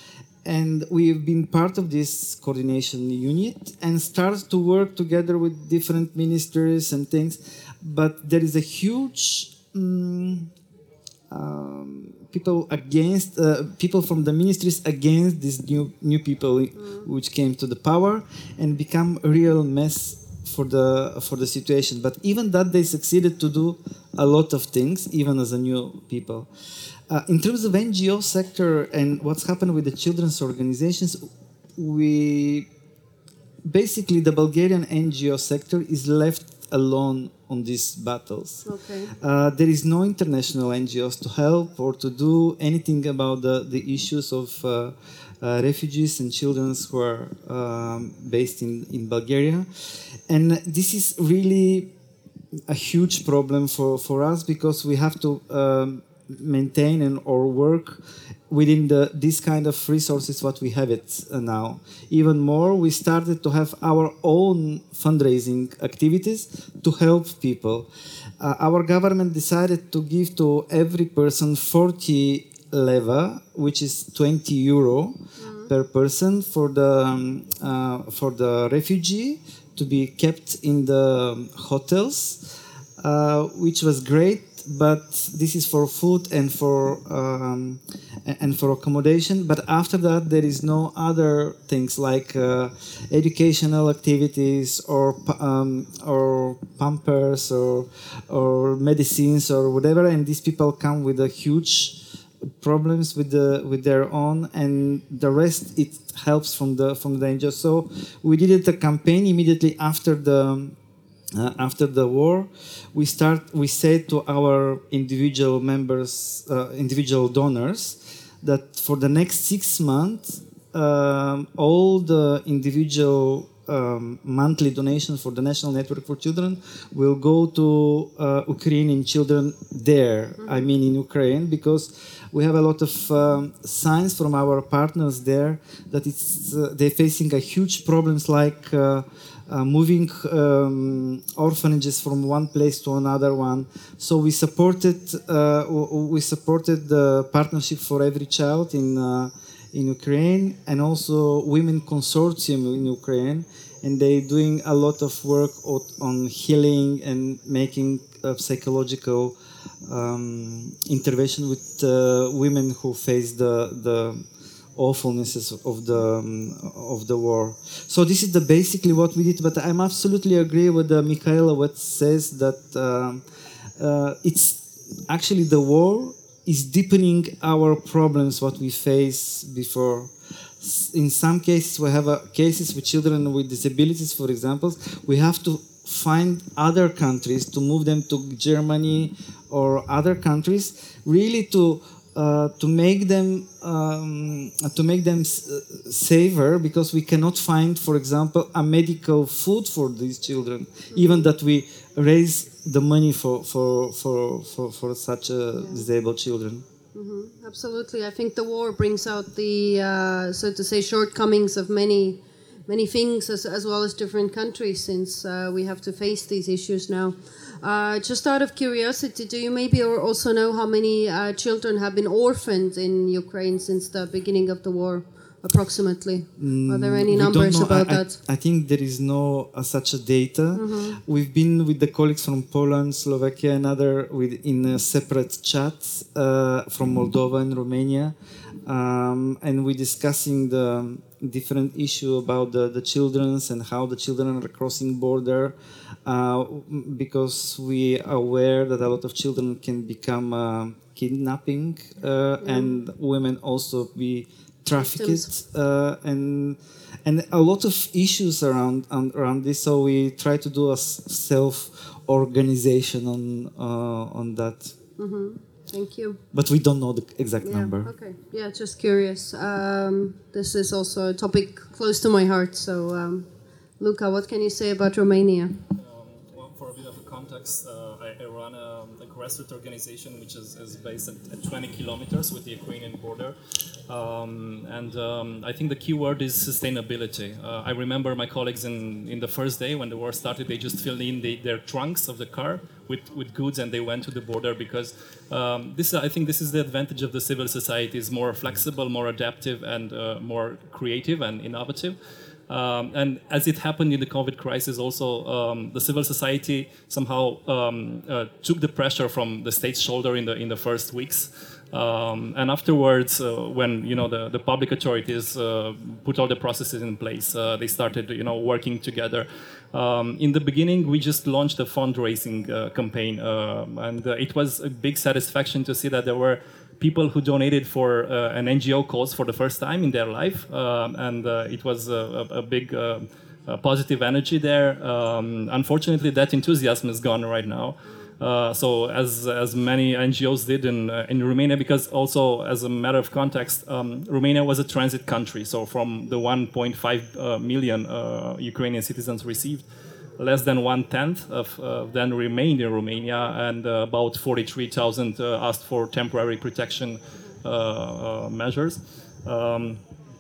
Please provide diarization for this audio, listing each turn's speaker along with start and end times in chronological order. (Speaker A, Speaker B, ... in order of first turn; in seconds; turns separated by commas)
Speaker A: 0.4-10.5, Speaker A: 11.3-26.5, Speaker A: 27.1-32.7, Speaker A: 33.6-49.7, Speaker B: 38.6-39.1, Speaker A: 50.3-51.9, Speaker A: 52.7-67.9, Speaker A: 68.4-82.5, Speaker B: 75.4-75.7, Speaker A: 83.0-102.0, Speaker A: 102.6-110.8, Speaker A: 111.3-159.3, Speaker B: 130.4-130.7, Speaker A: 159.8-164.2, Speaker A: 164.8-173.2, Speaker A: 173.8-206.6, Speaker B: 200.9-201.3, Speaker B: 205.6-205.8, Speaker B: 206.9-228.2, Speaker A: 226.4-238.1, Speaker B: 230.5-231.0, Speaker A: 238.7-264.7, Speaker B: 252.4-252.8, Speaker B: 254.8-255.3, Speaker B: 265.0-266.2, Speaker A: 266.3-267.9, Speaker B: 267.4-273.3, Speaker B: 273.8-275.5, Speaker C: 275.8-283.4, Speaker C: 283.9-302.0, Speaker C: 302.5-349.7, Speaker C: 350.2-359.8